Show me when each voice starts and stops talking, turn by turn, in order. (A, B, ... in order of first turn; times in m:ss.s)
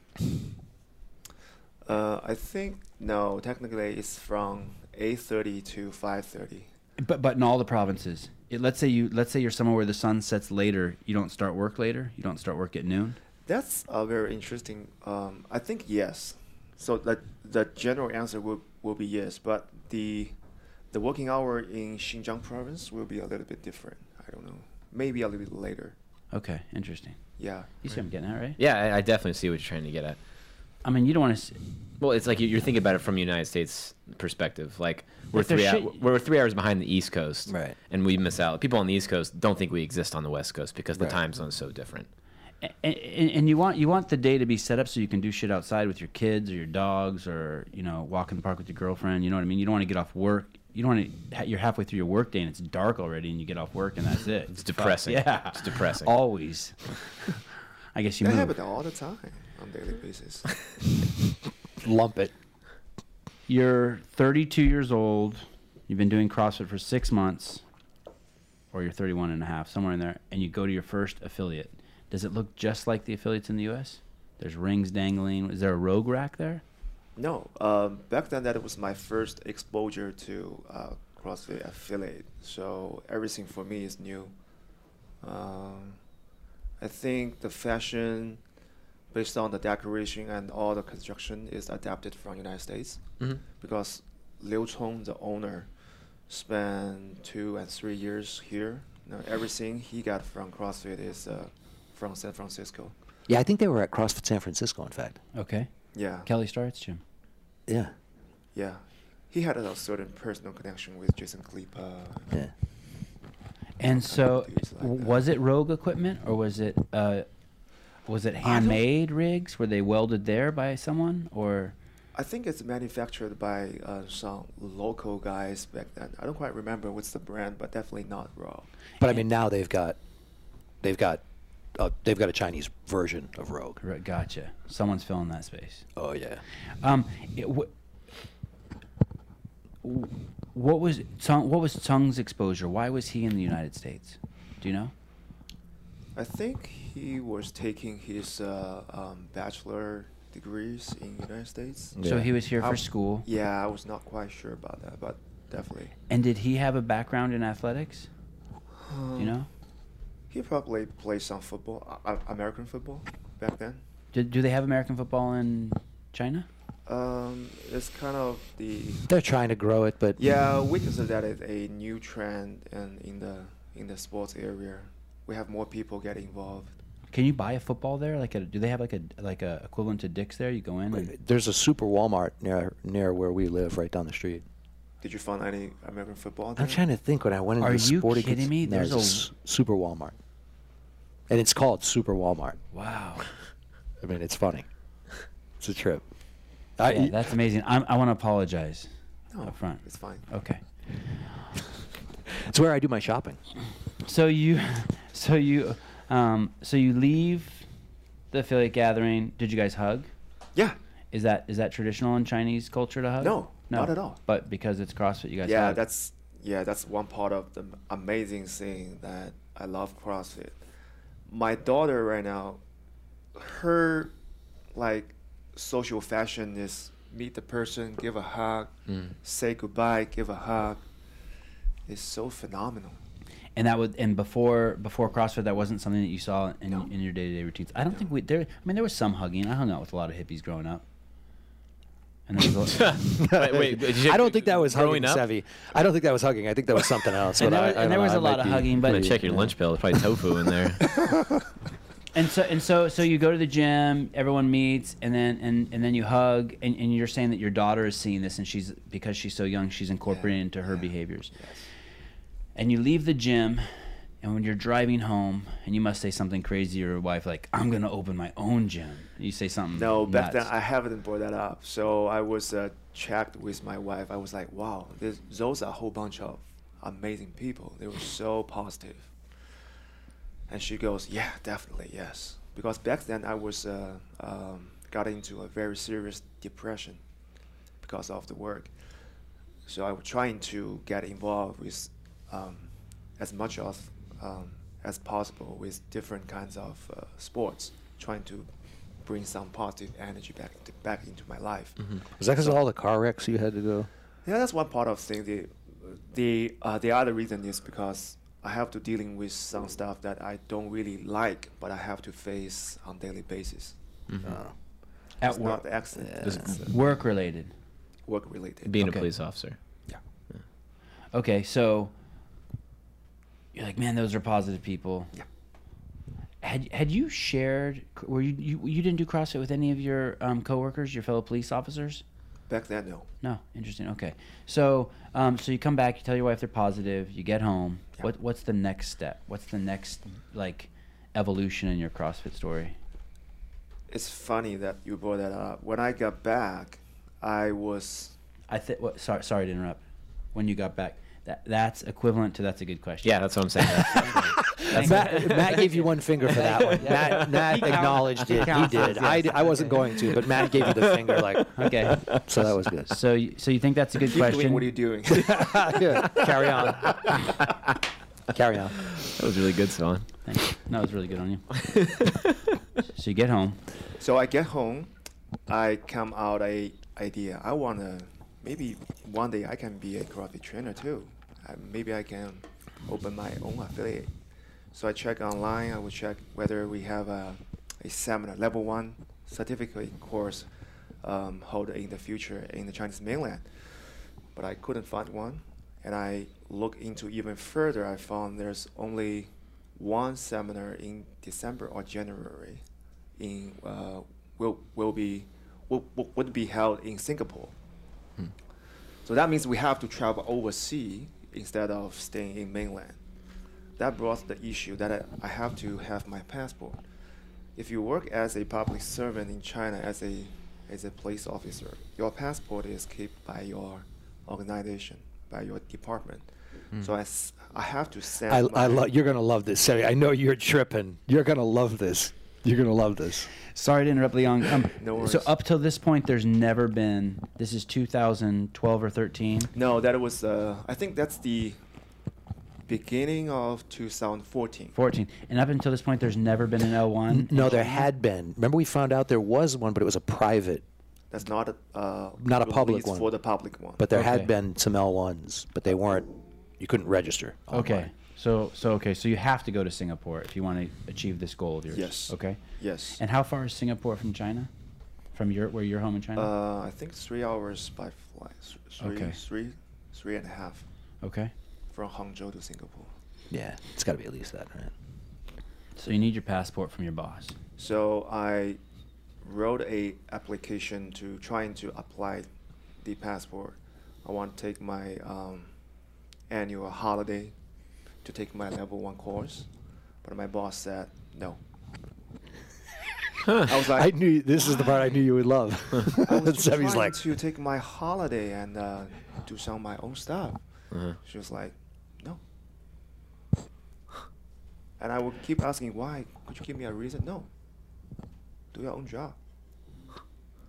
0:01.8-0:06.7 A
0:07.0-0:13.2 B
0:13.4-0:20.3 A
0:20.9-0:25.9 A
0:26.3-0:27.2 B
0:27.4-0:27.7 A
0:27.8-0:28.6 B
0:28.6-0:30.2 C
0:30.8-0:31.6 B
0:32.0-0:42.1 C
0:35.3-0:36.0 B
0:37.5-0:37.7 D
0:42.6-0:57.4 B
0:54.6-0:56.1 C
0:57.9-0:58.5 B
0:58.2-1:00.6 A
1:01.8-1:02.3 D
1:03.5-1:07.6 B
1:08.7-1:16.6 B
1:17.2-1:24.3 A
1:25.2-1:26.0 A
1:26.8-1:28.4 A
1:29.1-1:33.0 A
1:33.6-1:35.7 A
1:36.3-1:42.9 A
1:43.3-1:45.2 D
1:45.3-1:45.7 B
1:45.9-1:46.3 A
1:46.2-1:47.0 B
1:47.7-1:47.9 D
1:48.5-1:52.3 A
1:53.8-1:57.2 B
1:53.8-1:55.2 A
1:58.1-2:01.7 B
1:58.4-1:58.8 A
2:02.1-2:08.7 A
2:09.0-2:10.0 D
2:10.8-2:11.2 D
2:11.7-2:13.8 D
2:13.8-2:15.8 B
2:16.0-2:16.4 D
2:16.8-2:17.7 B
2:19.8-2:24.9 B
2:26.2-2:32.0 A
2:31.9-2:32.3 D
2:32.0-2:33.3 B
2:32.6-2:35.9 A
2:36.1-2:38.1 B
2:38.8-2:39.4 A
2:39.2-2:39.5 B
2:40.3-2:43.8 A
2:44.1-2:46.5 B
2:46.9-2:49.0 A
2:49.1-2:50.2 D
2:50.2-2:56.8 A
2:57.1-3:01.1 B
3:00.9-3:04.4 D
3:05.0-3:06.8 A
3:06.6-3:10.1 D
3:07.6-3:09.3 B
3:11.3-3:12.6 D
3:12.7-3:13.3 B
3:14.0-3:14.7 D
3:15.6-3:16.0 D
3:16.8-3:17.2 D
3:16.8-3:18.9 B
3:19.3-3:20.2 A
3:19.4-3:20.6 B
3:22.3-3:23.4 D
3:24.0-3:27.6 B
3:28.3-3:30.1 B
3:31.1-3:35.8 B
3:33.2-3:34.2 A
3:35.4-3:40.6 A
3:41.3-3:42.6 A
3:43.3-3:44.1 A
3:44.7-3:50.8 A
3:48.9-3:49.1 C
3:51.9-3:53.0 A
3:53.6-4:00.8 B
4:02.3-4:03.0 B
4:02.7-4:05.2 C
4:03.0-4:10.1 D
4:07.4-4:09.2 B
4:08.9-4:10.9 C
4:12.1-4:21.3 B
4:20.1-4:21.6 A
4:22.5-4:23.7 B
4:24.2-4:30.5 B
4:29.7-4:39.1 A
4:40.5-4:47.0 A
4:47.8-4:48.7 A
4:49.7-4:58.5 A
4:59.0-5:01.8 A
5:02.2-5:03.9 D
5:04.2-5:13.8 A
5:14.1-5:14.4 C
5:14.2-5:14.5 D
5:15.2-5:15.6 B
5:15.2-5:16.7 A
5:16.0-5:16.5 D
5:16.2-5:16.5 C
5:16.6-5:17.5 B
5:18.1-5:18.7 A
5:18.6-5:19.6 C
5:18.8-5:19.1 B
5:21.1-5:21.9 B
5:23.5-5:25.1 B
5:26.4-5:32.0 B
5:32.5-5:33.1 A
5:33.2-5:42.7 B
5:43.9-5:48.1 A
5:48.5-5:49.8 B
5:50.3-6:00.1 B
5:53.0-5:54.3 C
5:54.1-6:03.0 D
5:55.0-5:55.6 C
5:56.6-5:57.6 C
5:59.9-6:02.1 C
6:01.5-6:04.7 B
6:04.0-6:07.2 A
6:05.1-6:07.1 D
6:08.3-6:08.8 D
6:08.8-6:10.1 C
6:10.2-6:11.4 B
6:11.6-6:12.4 C
6:12.9-6:13.6 B
6:14.0-6:14.9 A
6:15.5-6:24.1 A
6:24.7-6:30.5 A
6:31.0-6:33.5 A
6:34.3-6:42.6 A
6:43.2-6:47.5 A
6:49.0-6:53.0 A
6:53.8-6:56.8 A
6:57.6-7:08.9 A
7:08.3-7:13.3 D
7:13.5-7:19.5 B
7:14.8-7:15.3 A
7:19.5-7:21.6 A
7:22.7-7:24.7 A
7:24.7-7:27.9 B
7:27.1-7:30.6 D
7:31.1-7:33.8 A
7:32.2-7:33.1 D
7:33.8-7:37.9 D
7:33.9-7:34.3 B
7:37.5-7:42.4 B
7:41.7-7:43.0 A
7:43.0-7:44.5 B
7:45.1-7:46.3 B
7:46.2-7:50.6 A
7:48.8-7:49.2 B
7:51.0-7:51.3 B
7:51.7-7:52.9 A
7:53.3-7:54.7 D
7:55.8-7:57.4 B
7:57.6-7:58.6 A
7:59.2-8:02.3 A
8:02.8-8:05.5 A
8:06.3-8:07.3 A
8:08.0-8:09.5 A
8:10.0-8:11.4 A
8:13.4-8:13.9 A
8:13.6-8:17.1 D
8:16.0-8:20.4 A
8:20.7-8:21.0 C
8:21.0-8:22.2 A
8:24.8-8:27.3 A
8:28.5-8:29.2 A